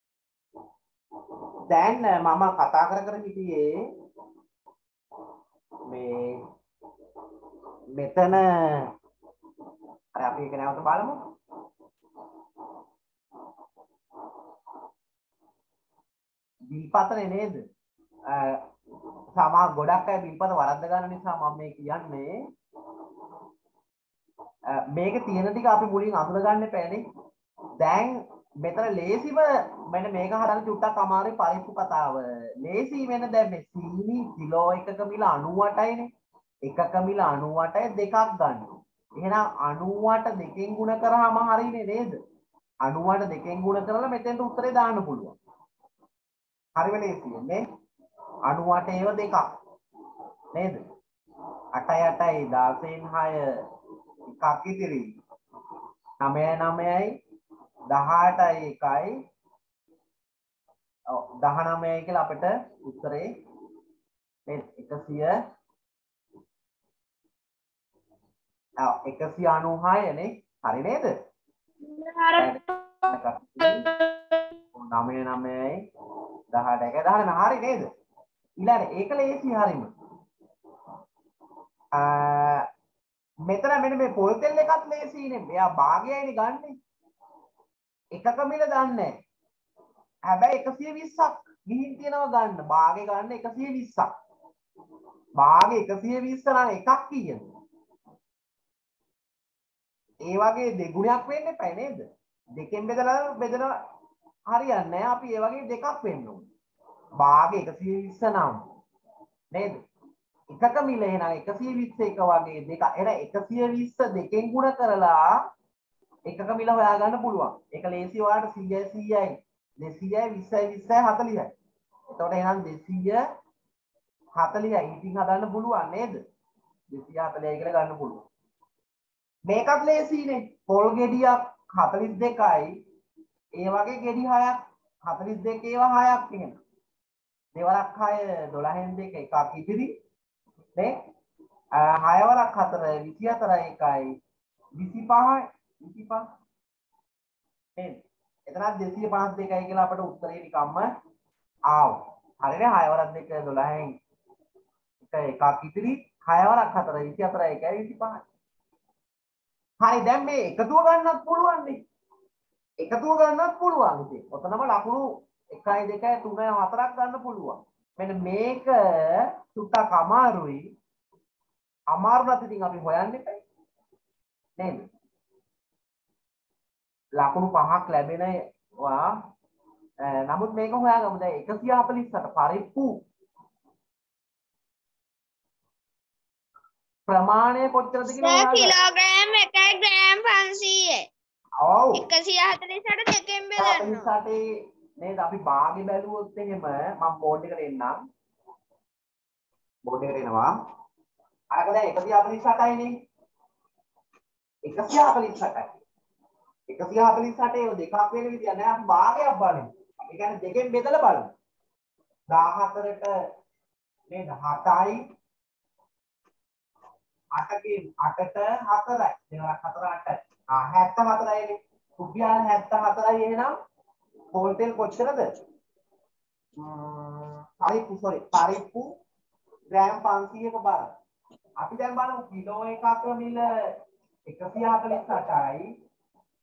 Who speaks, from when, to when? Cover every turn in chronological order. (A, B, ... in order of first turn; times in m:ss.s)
0:01.7-0:03.7 A
0:05.9-0:06.4 A
0:08.0-0:08.9 A
0:10.2-0:11.2 A
0:16.7-0:17.6 A
0:18.3-0:18.6 A
0:19.4-0:22.4 A
0:24.8-0:27.0 A
0:27.8-0:36.1 A
0:36.7-0:42.2 A
0:42.8-0:45.4 A
0:46.8-0:47.6 A
0:48.5-0:49.5 A
0:50.5-0:50.8 A
0:51.7-0:53.6 A
0:54.3-0:55.1 A
0:56.2-0:57.2 A
0:57.9-0:59.2 A
1:01.1-1:03.3 A
1:04.5-1:05.4 A
1:08.8-1:11.1 A
1:11.9-1:12.5 B
1:12.4-1:13.9 A
1:13.6-1:14.1 B
1:14.7-1:15.8 A
1:16.5-1:17.9 A
1:18.6-1:19.9 A
1:21.9-1:22.7 A
1:23.5-1:26.8 A
1:28.1-1:29.2 A
1:30.3-1:34.1 A
1:35.4-1:37.4 A
1:40.2-1:43.8 A
1:44.5-1:46.5 A
1:47.2-1:48.6 A
1:49.5-1:49.8 A
1:50.5-1:55.4 A
1:56.3-2:01.5 A
2:02.1-2:03.2 A
2:04.4-2:06.2 A
2:06.9-2:08.3 A
2:09.5-2:12.8 A
2:13.6-2:16.6 A
2:17.6-2:19.9 A
2:21.8-2:24.2 A
2:24.8-2:26.3 A
2:27.8-2:30.9 A
2:31.7-2:34.0 A
2:35.0-2:38.2 A
2:39.8-2:41.8 A
2:42.8-2:50.7 A
2:51.9-2:53.4 A
2:54.6-2:54.9 A
2:57.2-2:59.2 A
3:00.1-3:03.0 A
3:07.1-3:08.8 A
3:08.1-3:11.1 B
3:11.6-3:12.1 A
3:12.0-3:14.1 B
3:13.6-3:14.4 A
3:15.0-3:18.0 A
3:19.9-3:20.5 A
3:21.5-3:22.9 A
3:24.7-3:25.8 A
3:26.7-3:31.3 A
3:32.3-3:33.1 A
3:34.1-3:35.0 A
3:37.4-3:43.5 A
3:44.3-3:45.3 A
3:46.6-3:48.9 A
3:49.7-3:50.9 A
3:51.6-3:53.7 A
3:54.3-3:55.7 A